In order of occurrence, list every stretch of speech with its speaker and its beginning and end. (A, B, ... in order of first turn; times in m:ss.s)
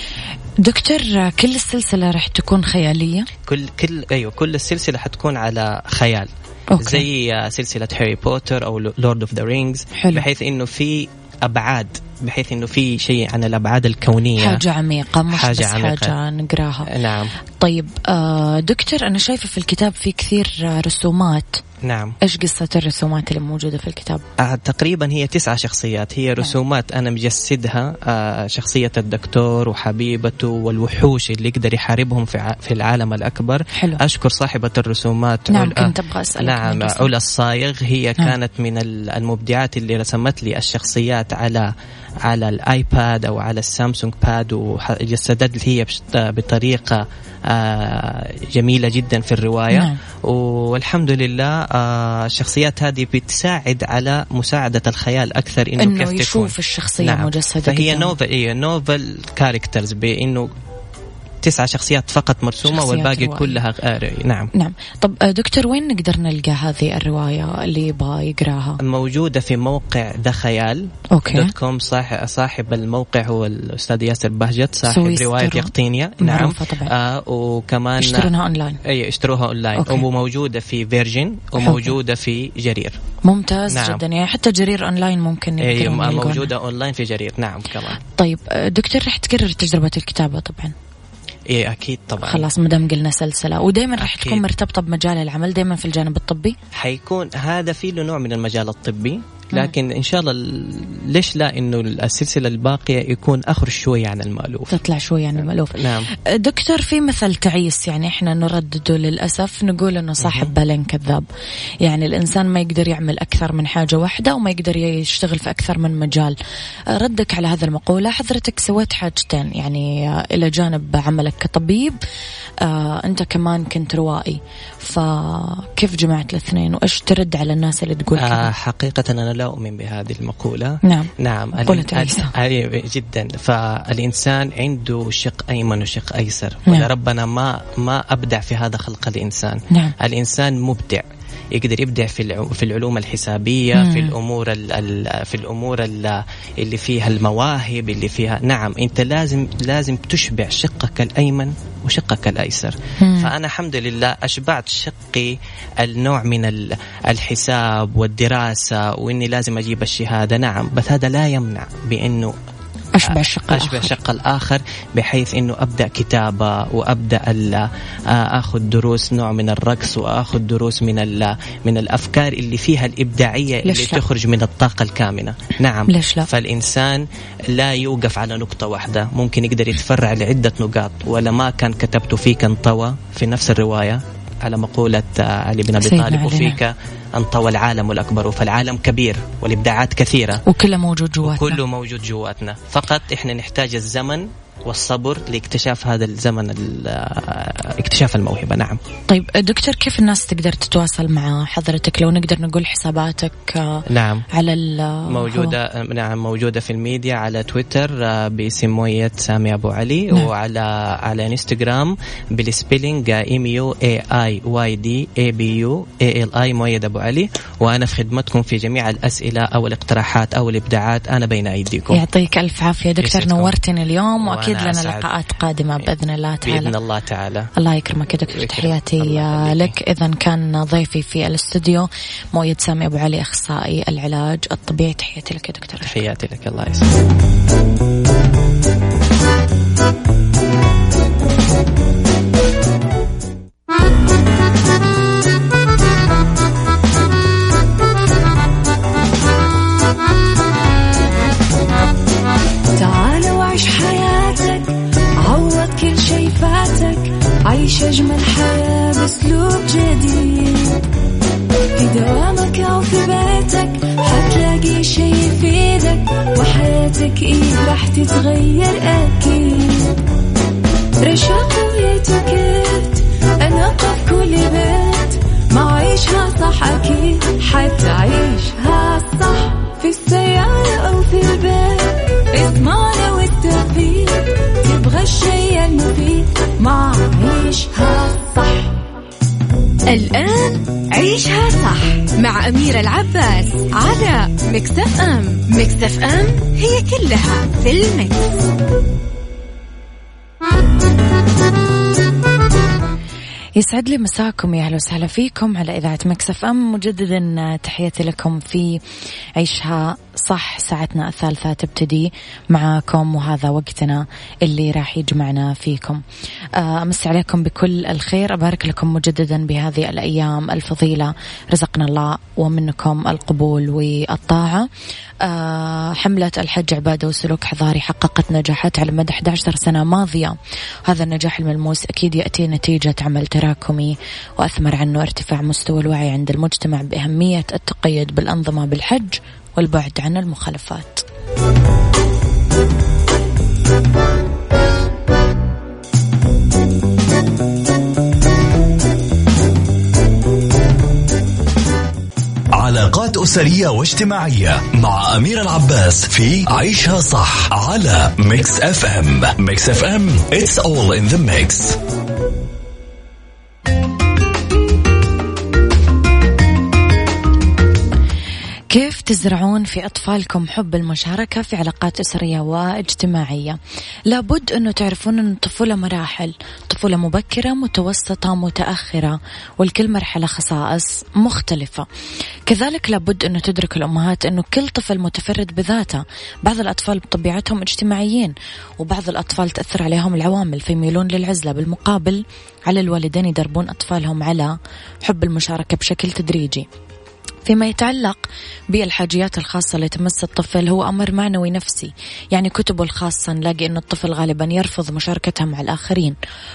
0:00.6-0:03.3 A
0:03.5-0:14.6 B
0:06.7-0:07.1 A
0:10.0-0:10.3 A
0:14.4-0:16.9 A
0:15.3-0:16.1 B
0:16.9-0:17.3 B
0:17.6-0:21.6 A
0:21.8-0:22.2 B
0:22.2-0:24.2 A
0:24.4-0:41.7 B
0:33.7-0:34.0 A
0:35.5-0:37.1 A
0:42.2-1:00.5 B
0:49.7-0:50.0 A
0:55.8-0:58.1 A
1:01.4-1:04.5 B
1:02.7-1:03.6 A
1:04.5-1:08.8 A
1:08.8-1:18.3 B
1:11.1-1:11.5 A
1:14.9-1:16.9 A
1:18.0-1:18.8 A
1:18.8-1:23.0 B
1:19.8-1:20.0 A
1:21.6-1:21.9 A
1:23.2-1:26.5 A
1:23.7-1:24.0 B
1:25.6-1:28.0 B
1:28.1-1:30.7 A
1:31.5-1:32.5 B
1:32.2-1:36.6 A
1:34.0-1:34.4 B
1:36.7-1:44.8 B
1:44.7-1:51.2 A
1:45.4-1:46.1 B
1:50.2-1:50.5 B
1:51.8-1:56.4 A
1:56.9-2:02.0 A
2:02.6-2:08.5 A
2:08.2-2:42.4 B
2:10.8-2:12.3 A
2:23.8-2:24.1 A
2:33.0-2:33.3 A
2:42.9-2:43.9 A
2:43.0-3:10.4 B
2:53.6-2:54.0 A
2:55.9-2:56.3 A
3:05.8-3:06.6 A
3:10.4-3:11.6 A
3:11.2-3:18.8 B
3:19.1-3:25.6 A
3:23.9-3:24.3 B
3:25.1-3:42.0 B
3:41.9-3:46.7 A
3:43.0-3:43.5 B
3:44.2-3:45.1 B
3:46.4-3:47.5 B
3:47.6-3:56.0 A
3:48.3-3:49.7 B
3:55.8-3:57.0 B
4:12.7-4:20.9 C
4:21.8-4:30.0 C
4:31.0-4:48.8 C
4:49.9-4:58.4 D
5:03.6-5:08.8 A
5:09.4-5:16.0 A
5:16.6-5:24.7 A
5:25.2-5:41.0 A
5:52.5-6:01.8 E
6:08.7-6:21.9 A
6:22.5-6:36.7 A
6:37.4-6:46.2 A